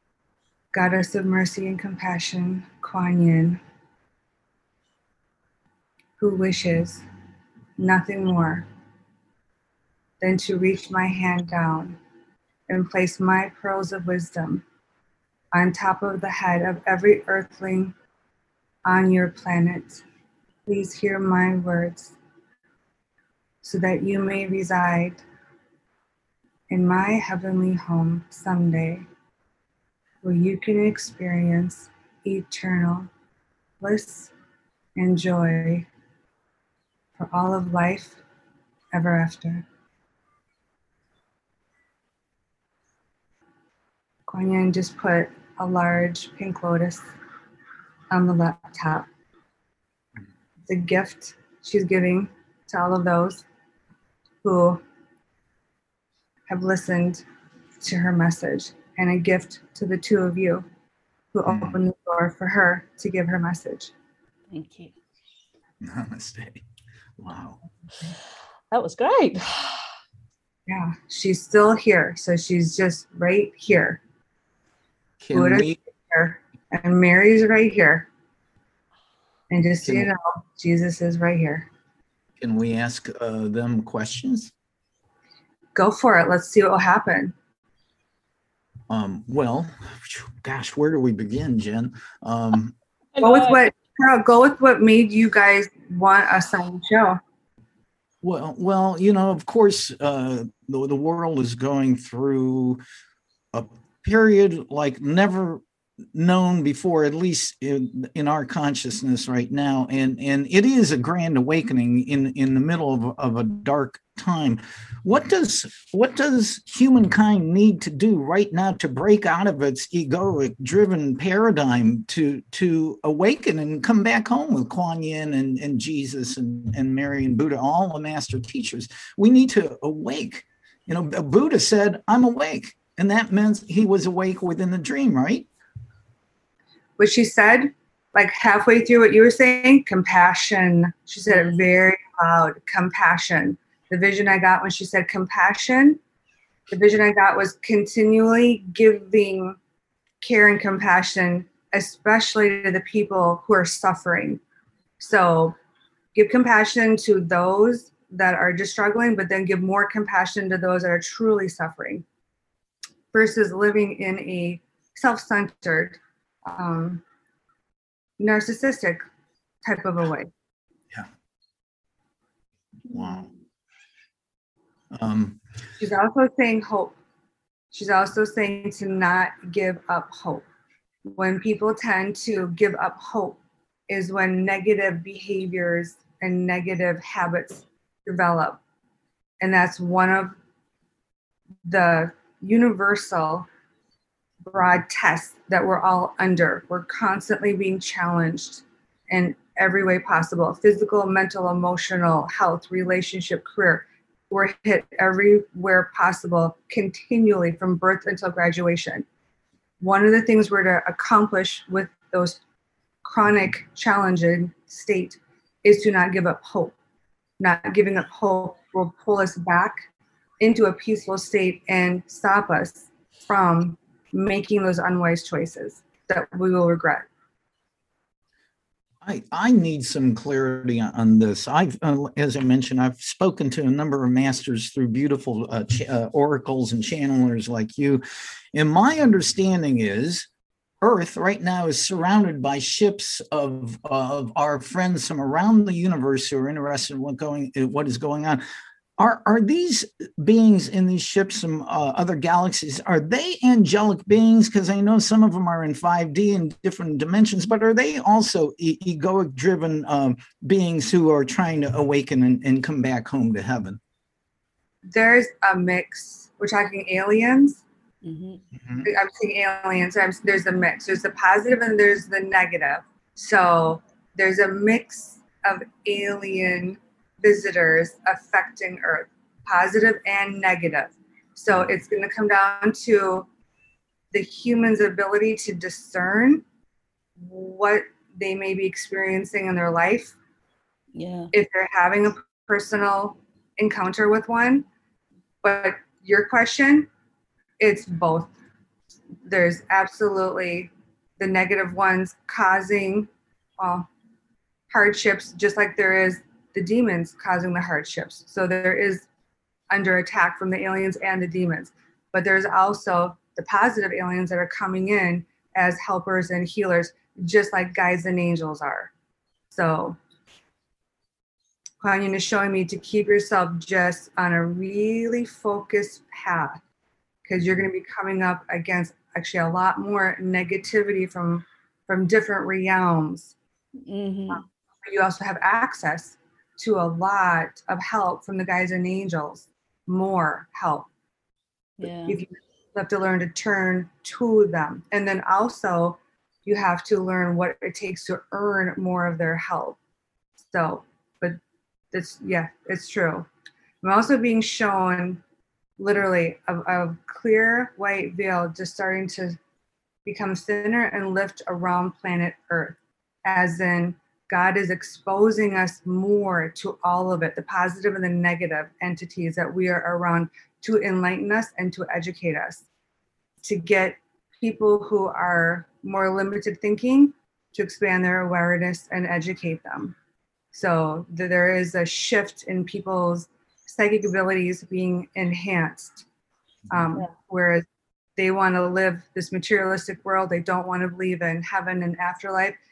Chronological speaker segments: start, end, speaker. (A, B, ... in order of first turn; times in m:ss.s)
0:00.7-0:03.6 A
0:06.2-0:07.0 A
0:07.8-0:08.6 A
0:10.2-0:12.0 A
0:12.7-0:14.6 A
0:15.5-0:17.9 A
0:18.8-0:20.0 A
0:20.7-0:22.1 A
0:23.6-0:25.2 A
0:26.7-0:29.0 A
0:30.2-0:33.1 A
0:33.8-0:34.3 A
0:35.0-0:35.9 A
0:37.2-0:38.2 A
0:38.9-0:39.6 A
0:44.3-0:47.0 A
0:48.1-0:49.1 A
0:50.7-0:53.4 A
0:54.4-0:54.8 A
0:56.5-0:57.2 A
0:57.8-1:00.6 A
1:01.3-1:03.9 A
1:01.5-1:01.8 B
1:04.5-1:04.9 C
1:05.8-1:06.6 B
1:07.2-1:07.6 B
1:08.7-1:09.8 C
1:10.7-1:14.0 A
1:15.2-1:15.8 B
1:15.3-1:18.1 A
1:19.5-1:21.7 A
1:19.8-1:20.1 B
1:22.4-1:24.5 B
1:25.7-1:27.3 A
1:28.9-1:32.7 B
1:33.2-1:33.6 C
1:33.2-1:37.2 A
1:38.2-1:42.8 B
1:43.5-1:45.6 B
1:46.1-2:15.5 B
2:17.0-2:26.0 A
2:21.3-2:21.6 C
2:26.7-2:29.6 A
2:30.2-2:34.4 A
2:35.0-2:35.5 A
2:36.1-2:42.0 A
2:43.1-2:47.0 A
2:48.2-2:49.0 A
2:49.6-2:50.3 A
2:52.9-2:53.3 B
2:54.9-2:55.4 B
2:55.8-2:57.0 A
2:57.7-3:00.4 A
3:01.0-3:08.6 A
3:09.4-3:10.3 A
3:11.6-3:13.5 A
3:14.5-3:29.0 A
3:29.8-3:32.4 A
3:33.0-3:36.7 A
3:37.4-3:39.8 A
3:40.4-3:47.1 A
3:49.0-3:58.0 B
3:58.5-4:00.3 B
4:00.8-4:08.4 B
4:09.0-4:23.8 B
4:24.9-4:27.6 A
4:28.0-4:28.4 C
4:28.8-4:43.3 A
4:44.1-4:46.4 A
4:47.2-4:50.1 A
4:50.9-4:51.3 C
4:51.3-4:54.6 A
4:55.4-4:56.9 A
4:57.6-4:58.3 A
4:59.2-5:03.9 A
5:04.7-5:09.1 A
5:09.7-5:18.9 A
5:19.5-5:20.0 A
5:21.8-5:26.6 A
5:27.2-5:33.3 A
5:33.8-5:34.4 C
5:34.3-5:40.9 A
5:41.8-5:42.2 C
5:42.0-5:49.8 A
5:50.5-5:51.4 A
5:51.9-5:53.3 A
5:53.8-5:55.2 A
5:55.8-5:59.4 A
6:00.0-6:12.6 A
6:13.4-6:19.9 A
6:20.5-6:26.0 A
6:26.7-6:27.6 A
6:28.2-6:32.6 A